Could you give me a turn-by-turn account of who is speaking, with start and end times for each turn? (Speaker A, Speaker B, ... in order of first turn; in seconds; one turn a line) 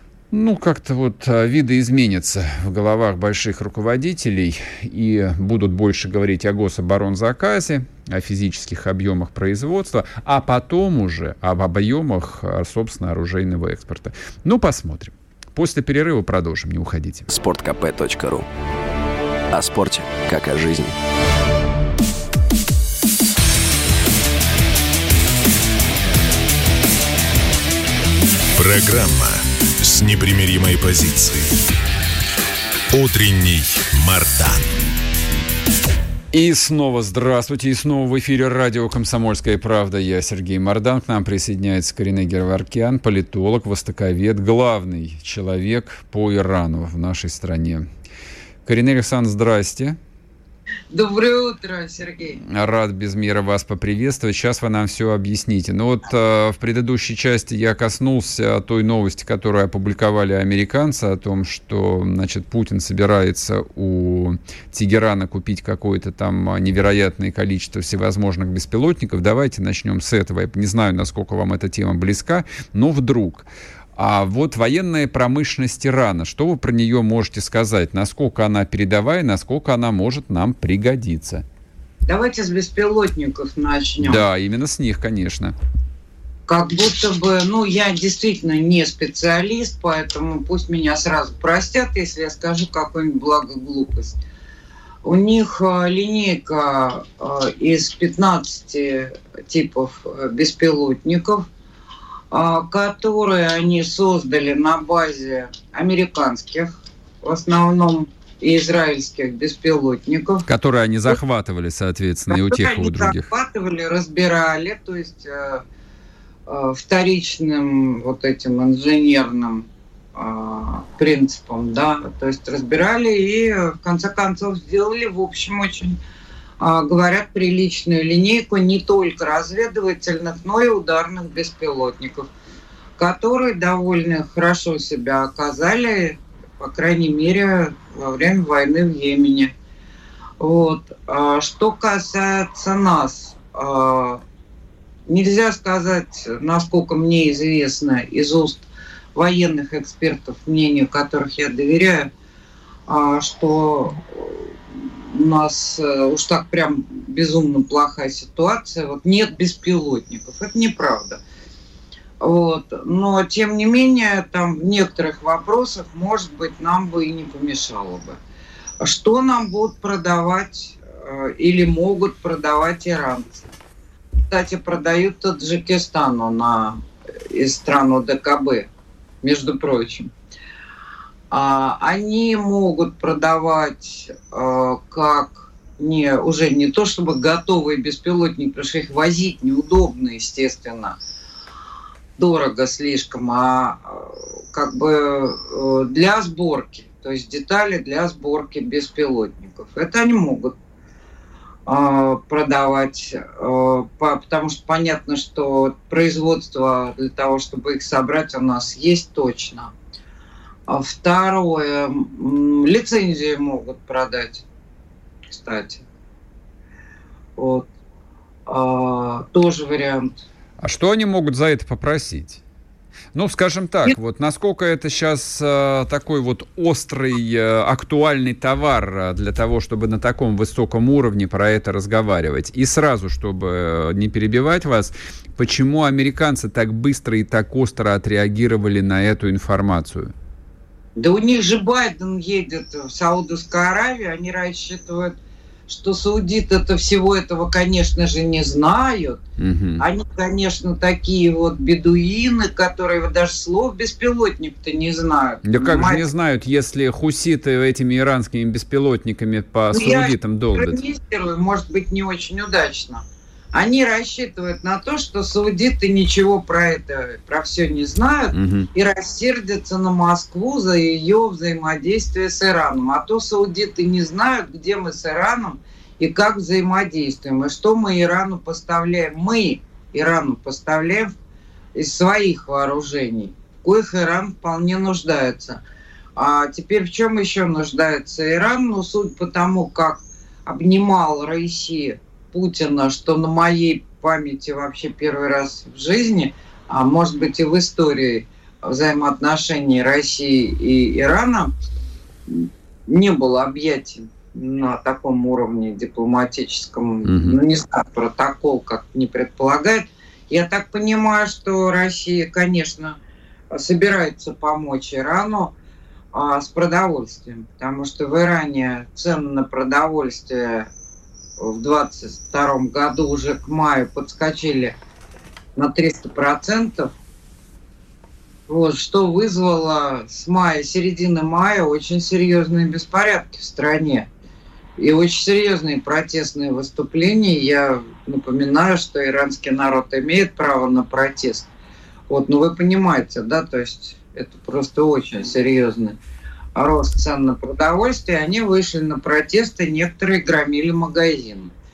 Speaker A: 0.3-17.3
Speaker B: 17.3-18.4
Speaker B: 19.5-20.9
Speaker C: 28.6-31.6
Speaker C: 32.9-34.7
Speaker A: 36.3-47.9
Speaker A: 48.6-50.0
Speaker D: 50.9-52.4
Speaker A: 52.4-81.5
Speaker D: 82.1-84.2
Speaker A: 84.0-85.5
Speaker D: 86.5-94.2
Speaker D: 95.0-101.5
Speaker D: 102.3-110.4
Speaker A: 110.4-113.3
Speaker D: 112.3-115.6
Speaker D: 116.5-126.0
Speaker D: 126.6-132.3
Speaker D: 133.0-139.5
Speaker D: 140.4-144.2
Speaker D: 145.1-152.1
Speaker D: 152.9-161.2
Speaker D: 162.2-168.2
Speaker D: 168.8-173.5
Speaker D: 174.3-176.8
Speaker D: 177.3-178.7
Speaker D: 179.2-180.1
Speaker D: 181.3-191.0
Speaker D: 192.2-200.5
Speaker D: 201.7-209.7
Speaker D: 210.7-214.4
Speaker D: 215.3-215.8
Speaker D: 217.4-217.7
Speaker D: 218.5-220.2
Speaker A: 220.6-222.4
Speaker A: 223.1-240.1
Speaker D: 240.9-249.2
Speaker A: 249.4-249.8
Speaker D: 249.8-256.1
Speaker A: 255.4-260.8
Speaker D: 259.7-281.1
Speaker A: 268.3-268.7
Speaker D: 281.7-285.6
Speaker D: 286.2-301.5
Speaker D: 302.3-313.0
Speaker A: 307.0-307.4
Speaker D: 313.5-315.5
Speaker D: 316.1-320.7
Speaker D: 321.4-324.7
Speaker D: 325.6-326.9
Speaker D: 328.5-334.1
Speaker D: 334.8-341.5
Speaker D: 342.1-346.0
Speaker D: 346.5-351.5